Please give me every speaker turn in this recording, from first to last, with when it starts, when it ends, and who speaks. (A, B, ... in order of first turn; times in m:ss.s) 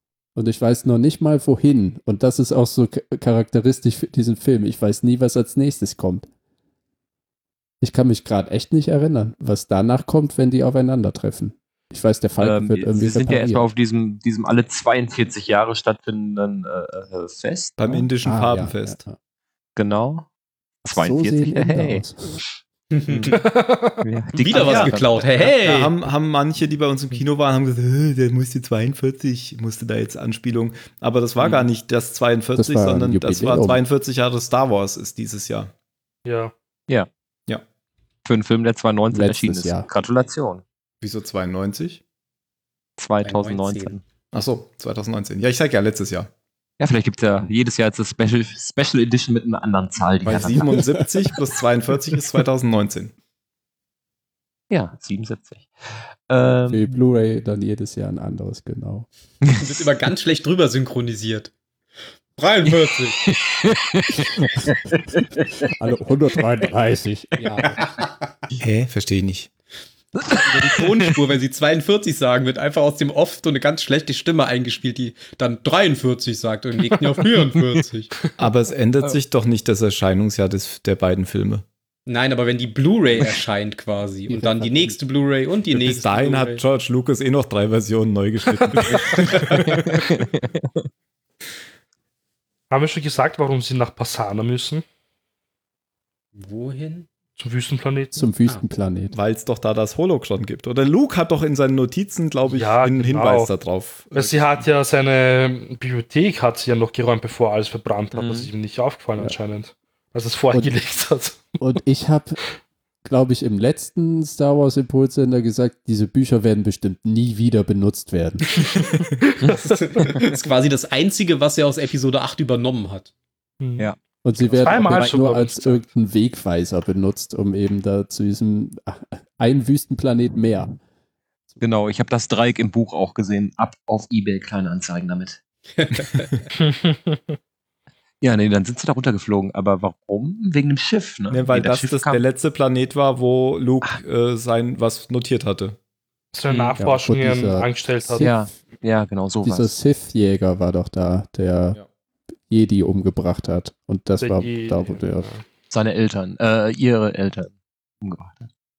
0:00.4-0:06.3 A
0:07.8-0:13.6 A
0:12.4-0:17.8 B
0:17.8-0:19.0 C
0:17.9-0:19.2 A
0:19.8-0:20.3 B
0:20.8-0:22.0 B
0:20.9-0:22.4 A
0:22.9-0:23.4 D
0:23.1-0:23.3 B
0:23.3-0:24.0 E
0:24.0-0:25.2 B
0:24.4-0:25.9 D
0:24.5-0:35.7 C
0:31.4-0:31.7 B
0:32.5-0:33.8 A
0:36.2-0:36.5 E
0:38.2-0:40.6 B
0:39.1-0:39.9 A
0:41.0-0:42.0 C
0:43.0-0:44.0 B
0:43.2-0:44.0 D
0:44.3-0:46.3 C
0:46.8-0:50.9 B
0:50.2-0:53.1 C
0:50.7-0:51.3 A
0:54.7-0:56.9 B
0:56.7-0:59.1 A
0:59.5-1:01.5 D
1:02.4-1:03.2 D
1:02.7-1:05.4 B
1:05.7-1:07.8 A
1:07.8-1:08.1 D
1:08.6-1:09.5 C
1:10.1-1:10.9 B
1:10.3-1:18.1 D
1:18.4-1:21.6 C
1:22.0-1:26.6 D
1:24.3-1:24.9 A
1:25.7-1:30.2 C
1:29.7-1:30.8 B
1:32.7-1:34.8 E
1:36.3-1:37.1 D
1:37.4-1:38.3 E
1:38.1-1:39.1 A
1:39.1-1:44.6 C
1:42.5-1:43.5 E
1:44.1-1:51.6 E
1:48.2-1:48.5 B
1:51.6-1:52.4 A
1:53.0-1:58.4 A
1:59.2-2:00.0 E
1:59.6-2:03.1 D
2:03.6-2:03.9 E
2:04.2-2:10.8 A
2:04.5-2:05.8 E
2:04.6-2:05.2 B
2:11.6-2:16.1 B
2:15.8-2:16.3 D
2:16.6-2:17.4 E
2:18.2-2:22.2 B
2:21.3-2:25.8 C
2:26.3-2:28.3 E
2:26.5-2:26.8 B
2:26.8-2:28.4 A
2:28.2-2:29.7 B
2:29.4-2:31.8 A
2:32.5-2:35.3 A
2:34.2-2:35.4 E
2:35.7-2:38.5 B